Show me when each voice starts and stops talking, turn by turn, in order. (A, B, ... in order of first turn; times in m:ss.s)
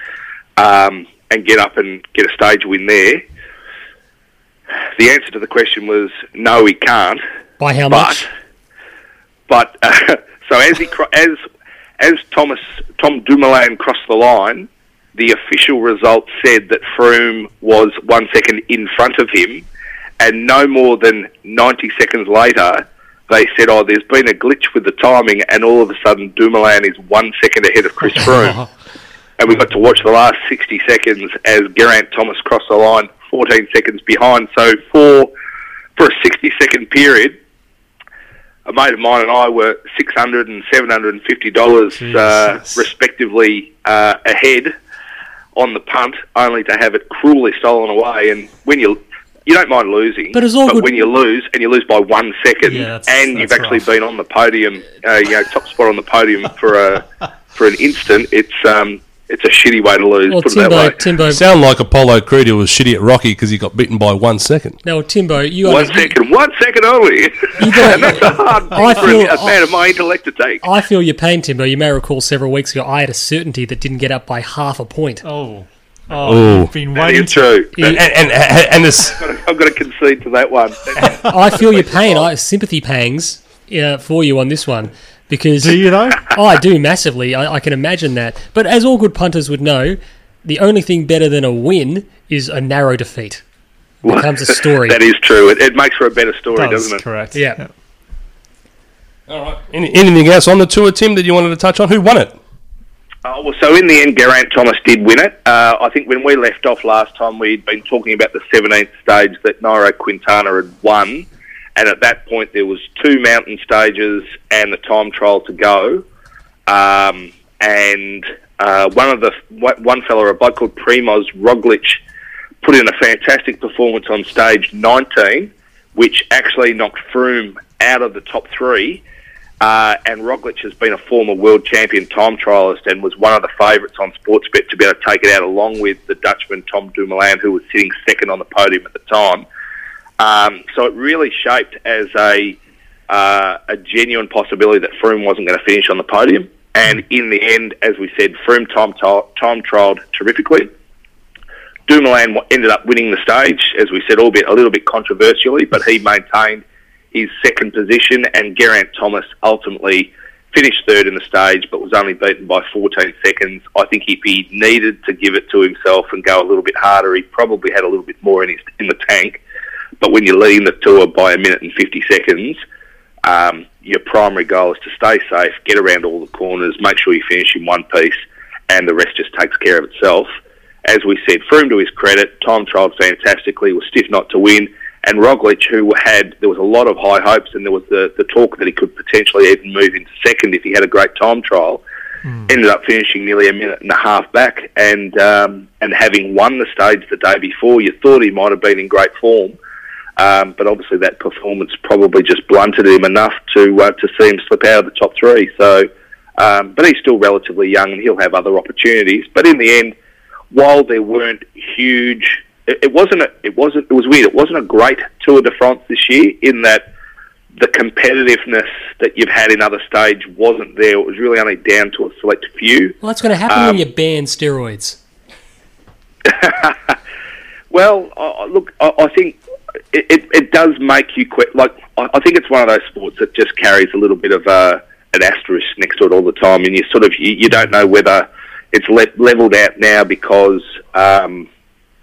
0:00.6-0:03.2 A
0:05.0-0:07.2 A
0:07.6-0:08.3 B
0:07.9-0:08.3 A
0:09.5-0:11.4 A
0:12.0-0:19.6 A
0:20.2-0:28.7 A
0:29.4-0:35.3 A
0:36.0-0:37.4 A
0:38.7-0:44.7 A
0:41.9-0:42.9 C
0:45.6-1:01.0 A
0:50.3-0:50.9 B
0:52.6-0:53.9 C
1:00.3-1:01.4 B
1:01.3-1:04.8 D
1:04.8-1:06.2 B
1:05.7-1:10.6 A
1:07.6-1:09.6 B
1:10.6-1:15.2 B
1:15.2-1:17.6 C
1:16.2-1:16.7 D
1:17.0-1:18.0 A
1:17.8-1:19.2 D
1:19.0-1:22.3 A
1:21.2-1:33.4 B
1:25.6-1:26.3 C
1:34.0-1:35.0 B
1:34.8-1:37.0 A
1:36.5-1:37.7 C
1:37.3-1:37.6 B
1:39.3-1:42.4 D
1:43.2-1:56.0 A
1:56.7-2:02.0 A
2:02.6-2:09.0 A
2:09.6-2:19.4 A
2:20.2-2:22.6 A
2:23.1-2:30.7 A
2:31.9-2:49.4 A
2:50.0-2:52.6 A
2:53.2-2:58.2 A
2:58.7-3:00.3 A
3:00.8-3:11.8 A
3:12.2-3:12.5 C
3:12.5-3:19.6 A
3:20.2-3:30.0 A
3:30.5-3:36.9 A
3:37.6-3:43.0 A
3:43.0-3:45.0 B
3:43.5-3:43.8 A
3:46.2-3:46.9 A
3:47.7-3:49.4 A
3:49.9-4:01.5 A